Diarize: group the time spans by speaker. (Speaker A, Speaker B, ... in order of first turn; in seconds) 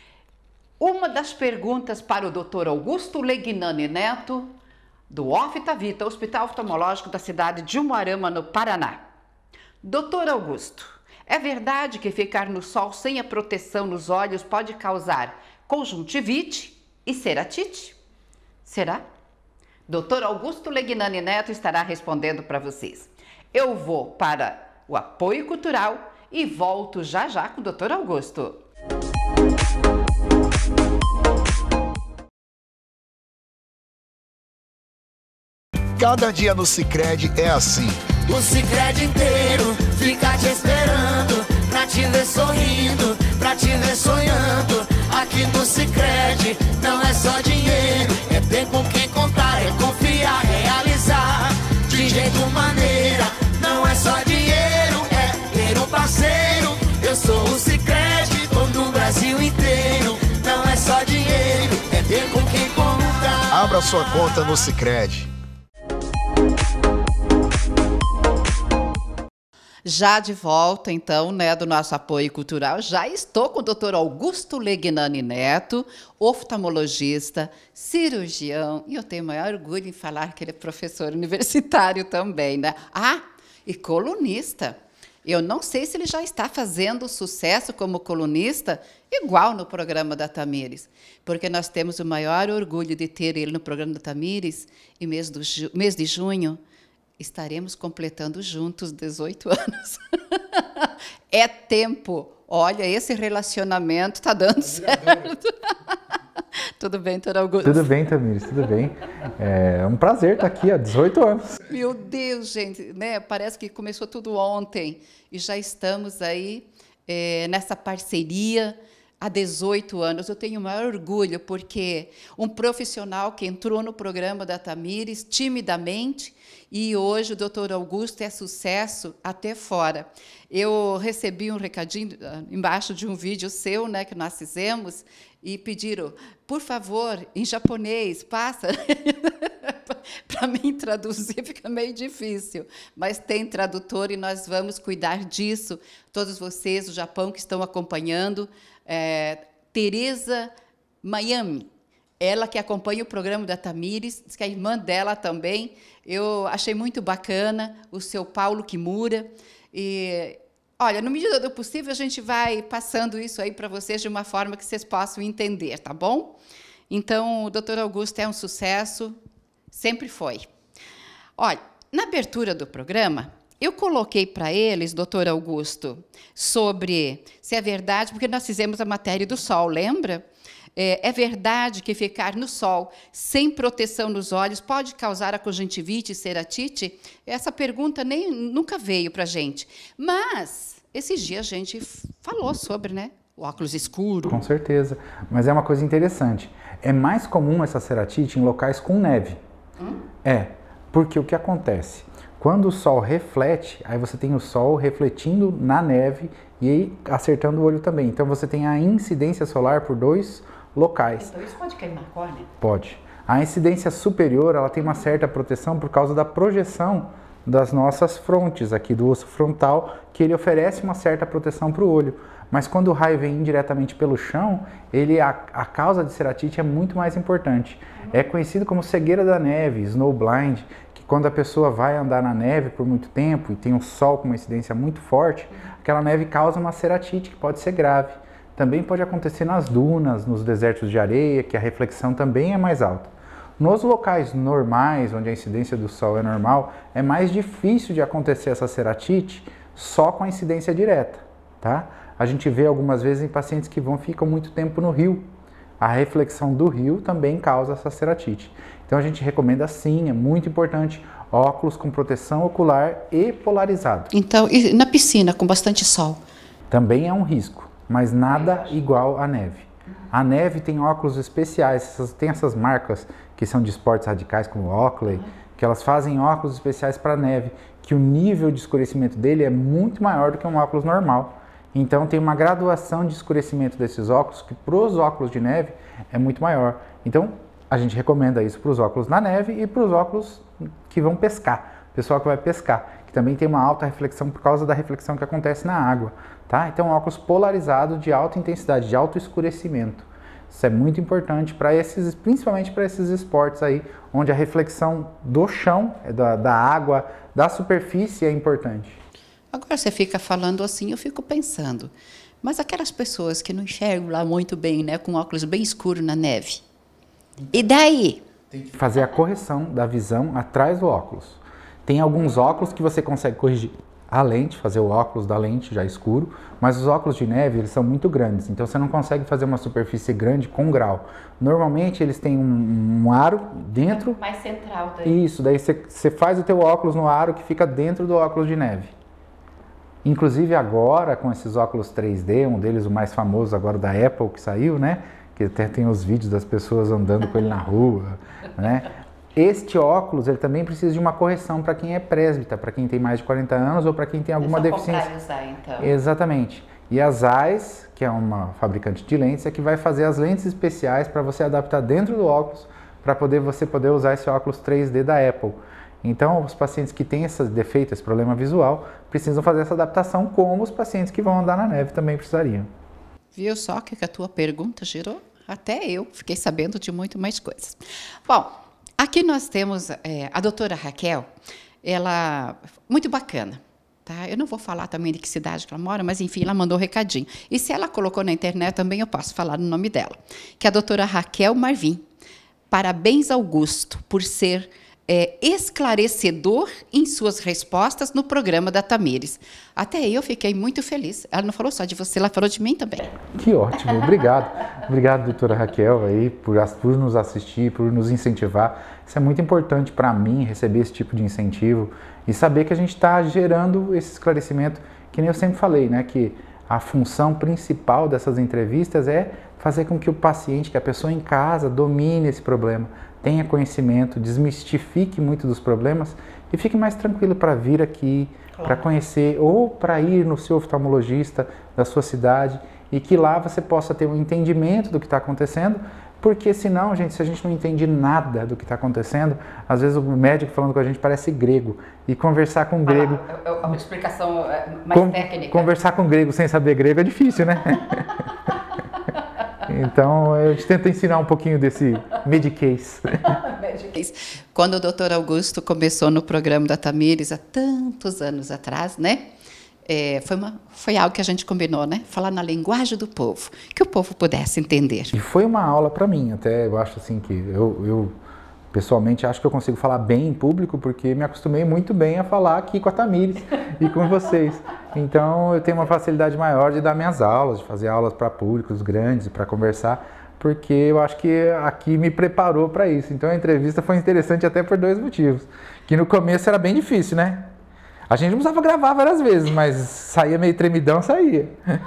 Speaker A: 0.8-4.5, 5.1-9.0, 9.8-18.0, 18.6-19.0, 19.9-28.6, 69.8-96.6, 97.2-107.9, 111.6-150.5, 151.0-151.7, 152.2-166.4, 166.9-169.2, 169.7-170.5, 171.4-180.2, 180.8-194.4, 211.2-212.5, 264.1-266.2, 268.3-268.7, 309.5-316.6, 317.5-318.2, 333.9-335.2, 354.4-355.9, 373.3-381.3, 381.8-392.1, 392.7-403.2, 428.5-428.8, 442.9-445.7, 453.4-459.3, 459.8-465.1
Speaker B: 36.0-38.1, 63.5-65.3
Speaker C: 38.2-63.5
Speaker D: 107.6-111.6, 194.3-199.4, 200.2-211.3, 212.6-255.3, 255.8-264.1, 266.7-309.0, 318.5-334.2, 335.1-338.9, 340.0-355.1, 355.8-372.7, 403.3-443.2, 444.9-448.2, 449.6-453.4, 465.1-468.1, 468.7-487.5, 488.1-491.6